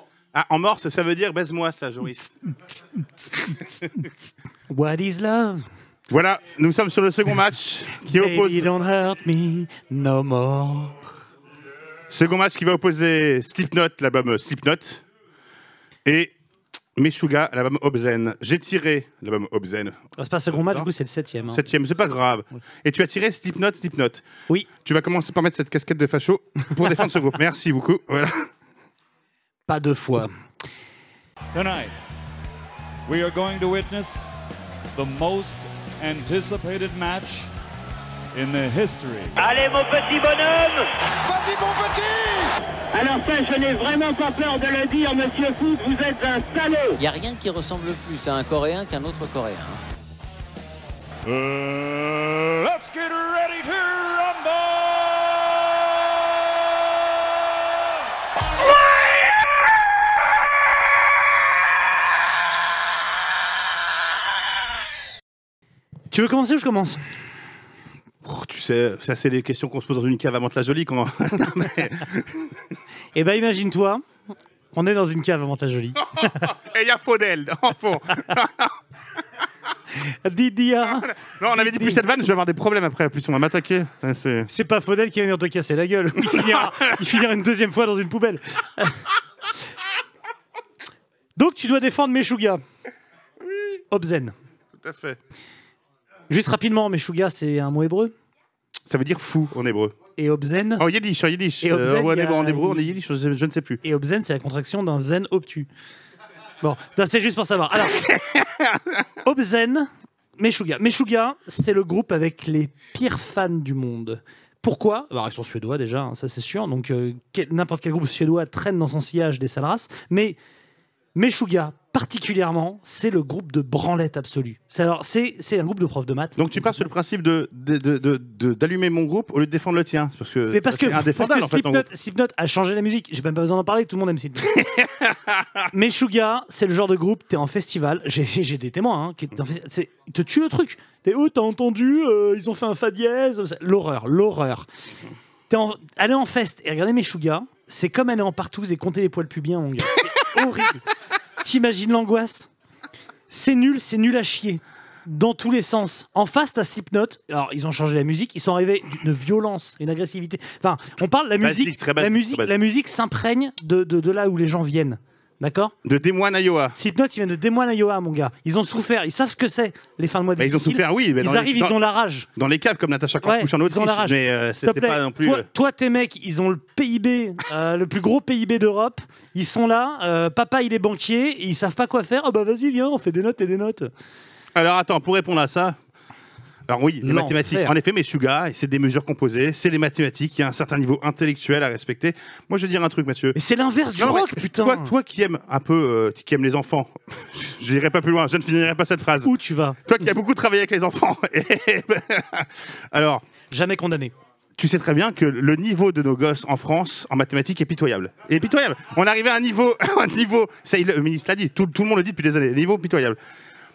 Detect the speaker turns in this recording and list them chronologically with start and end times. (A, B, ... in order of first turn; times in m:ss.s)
0:00.3-0:02.4 A
0:04.7-0:05.6 B
0:06.1-0:08.7 A
0:08.0-0:11.0 B
0:12.1-0:15.0 A
0:16.0-0:16.3 A
0:17.0-0:20.0 A
0:20.2-0:21.6 B
0:20.5-0:20.9 A
0:21.5-0:24.2 A
0:24.8-0:28.5 A
0:29.7-0:30.3 B
0:31.5-0:31.9 C
0:33.1-0:34.3 C
0:35.0-0:37.5 C
0:38.3-0:39.4 C
0:39.4-0:40.7 D
0:42.9-0:47.0 D
0:47.0-0:49.8 E
0:51.3-0:54.9 C
1:06.1-1:07.0 B
1:08.2-1:12.5 A
1:13.2-1:14.0 B
1:14.7-1:16.5 B
1:16.0-1:18.7 A
1:20.2-1:22.0 B
1:20.9-1:24.5 A
1:24.5-1:29.0 B
1:26.3-1:26.7 A
1:31.4-1:32.6 B
1:33.9-1:34.3 B
1:34.8-1:35.2 A
1:36.3-1:38.1 B
1:38.9-1:39.9 A
1:40.2-1:40.8 B
1:40.8-1:43.8 A
1:41.6-1:42.9 B
1:43.8-1:45.7 B
1:46.6-1:48.0 B
1:47.9-1:48.9 A
1:49.2-2:00.4 B
2:01.2-2:06.8 B
2:06.4-2:11.9 A
2:10.5-2:14.6 B
2:14.6-2:15.4 A
2:15.7-2:24.7 B
2:25.5-2:30.8 B
2:31.4-2:32.5 B
2:33.3-2:45.7 B
2:41.4-2:42.5 A
2:45.8-2:46.8 A
2:46.7-2:52.3 B
2:50.4-2:51.8 A
2:52.4-2:55.5 A
2:53.2-3:03.9 B
3:04.6-3:05.8 A
3:06.7-3:13.4 A
3:07.0-3:07.7 B
3:13.4-3:14.9 B
3:14.0-3:19.3 A
3:19.2-3:19.8 B
3:19.9-3:23.2 A
3:23.5-3:24.1 B
3:24.6-3:33.2 A